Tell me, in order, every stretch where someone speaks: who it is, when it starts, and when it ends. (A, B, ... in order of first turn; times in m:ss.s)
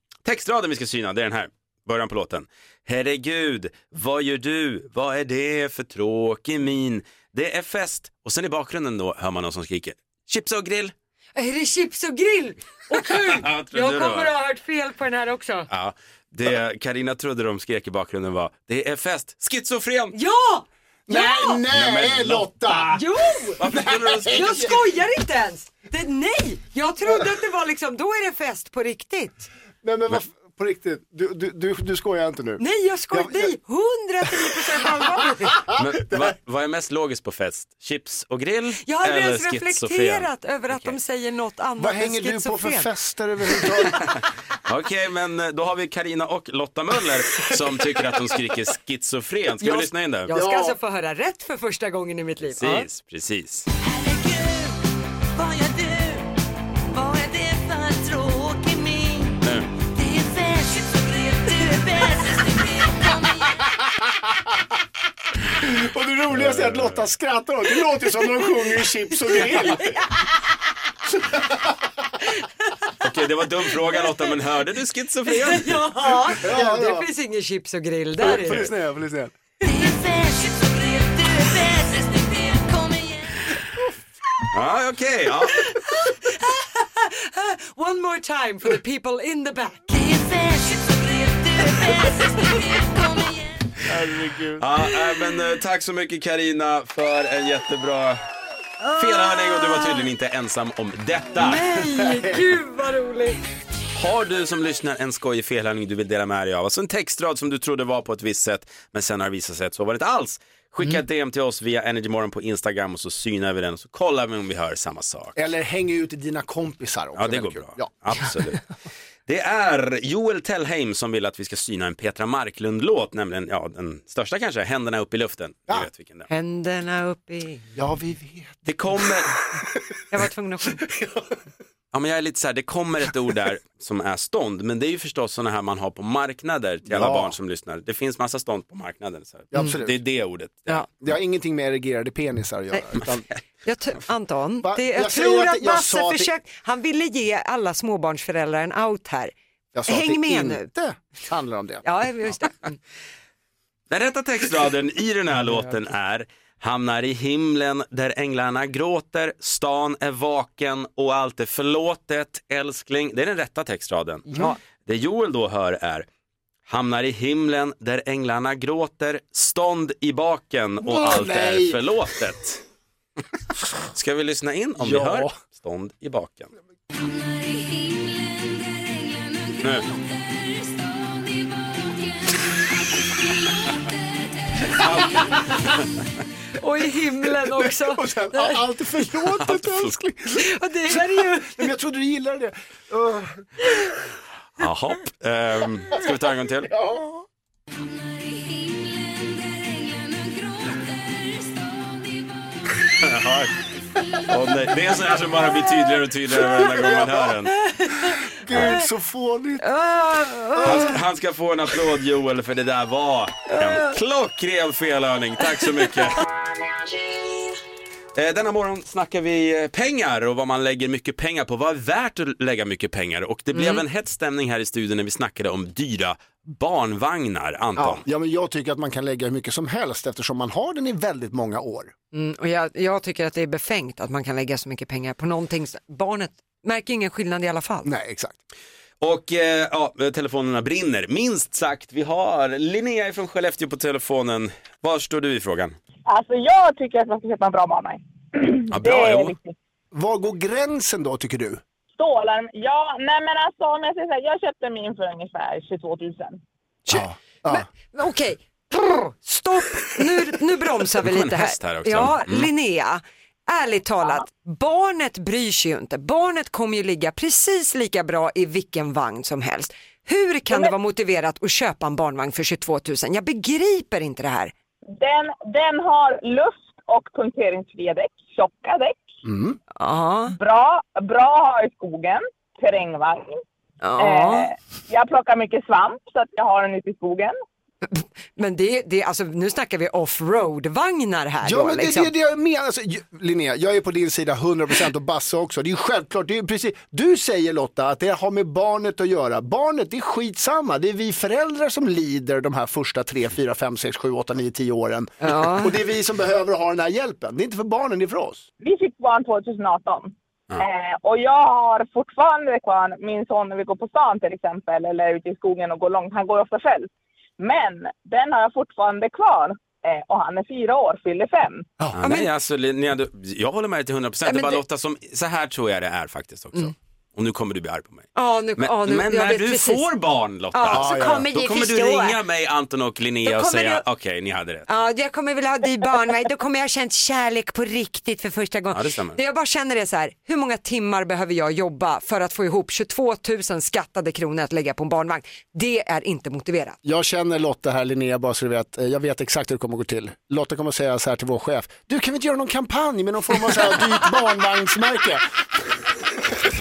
0:00.2-0:10.9 A
0:11.4-0:15.7 B
0:13.2-0:14.3 A
0:15.7-0:20.2 A
0:20.1-0:21.6 B
0:21.1-0:23.0 C
0:21.7-0:23.0 A
0:22.9-0:23.6 B
0:23.6-0:24.7 A
0:23.6-0:24.7 C
0:24.3-0:29.5 B
0:29.8-0:33.5 C
0:32.6-0:35.6 B
0:35.8-0:41.0 A
0:38.8-0:42.9 B
0:41.8-0:44.0 C
0:44.6-0:50.3 A
0:49.6-0:52.9 B
0:50.3-0:50.8 C
0:52.6-0:53.7 A
0:54.1-0:54.6 D
0:55.4-0:56.2 D
0:56.9-0:59.3 D
0:59.4-0:59.7 A
0:59.9-1:03.5 D
1:05.6-1:09.9 C
1:06.3-1:07.0 A
1:09.3-1:10.1 B
1:13.0-1:15.8 A
1:15.3-1:18.7 B
1:16.4-1:17.1 C
1:18.2-1:19.3 C
1:19.6-1:23.3 D
1:24.5-1:25.6 A
1:25.6-1:29.8 B
1:29.9-1:33.6 D
1:34.6-1:38.2 A
1:38.8-1:40.0 B
1:39.0-1:41.8 A
1:41.4-1:43.4 B
1:42.1-1:42.4 C
1:44.0-1:55.3 A
1:55.4-1:57.9 C
1:57.2-1:58.6 A
1:59.3-2:06.3 A
2:06.3-2:07.7 B
2:07.8-2:08.6 C
2:08.6-2:09.4 A
2:10.1-2:10.8 B
2:11.9-2:20.8 A
2:16.9-2:17.3 C
2:19.5-2:20.0 C
2:21.0-2:23.3 C
2:23.6-2:29.3 B
2:24.6-2:26.3 C
2:29.7-2:31.8 C
2:29.9-2:30.7 B
2:31.8-2:32.8 B
2:33.9-2:46.1 A
2:46.7-2:52.6 A
2:50.8-2:51.8 C
2:53.9-2:56.5 A
2:54.8-2:55.3 C
2:57.0-3:04.7 D
2:59.6-2:59.9 A
3:04.8-3:05.8 A
3:06.6-3:08.6 B
3:07.4-3:13.5 C
3:09.4-3:10.0 A
3:10.4-3:11.7 B
3:14.6-3:16.7 A
3:16.7-3:17.2 C
3:17.8-3:22.8 D
3:23.0-3:23.5 A
3:24.3-3:27.6 A
3:26.8-3:27.1 C
3:27.7-3:28.8 B
3:28.2-3:29.7 C
3:29.6-3:30.9 B
3:30.6-3:30.9 C
3:30.6-3:36.2 A
3:33.5-3:33.9 B
3:38.2-3:48.0 A
3:43.5-3:43.8 B
3:47.8-3:51.9 C
3:52.1-3:57.9 B
3:57.8-3:58.4 C
3:59.0-4:05.8 A
4:06.1-4:09.6 E
4:08.7-4:09.4 A
4:09.9-4:11.6 C
4:12.0-4:16.4 E
4:16.9-4:34.5 B
4:16.9-4:17.6 C
4:21.0-4:22.5 A
4:34.9-4:39.1 E
4:39.2-4:39.6 C
4:39.8-4:40.4 B
4:40.3-4:43.4 E
4:43.8-4:44.5 B
4:44.0-4:47.3 E
4:47.9-4:52.1 B
4:51.4-5:08.5 C
5:05.2-5:05.7 B
5:08.6-5:21.7 E
5:22.0-5:34.7 A
5:22.0-5:22.3 B
5:24.2-5:24.6 B
5:28.2-5:29.8 B
5:30.5-5:32.2 B
5:30.7-5:31.3 C
5:33.2-5:33.8 B
5:34.7-5:46.8 B
5:38.7-5:39.2 A
5:46.8-5:55.2 C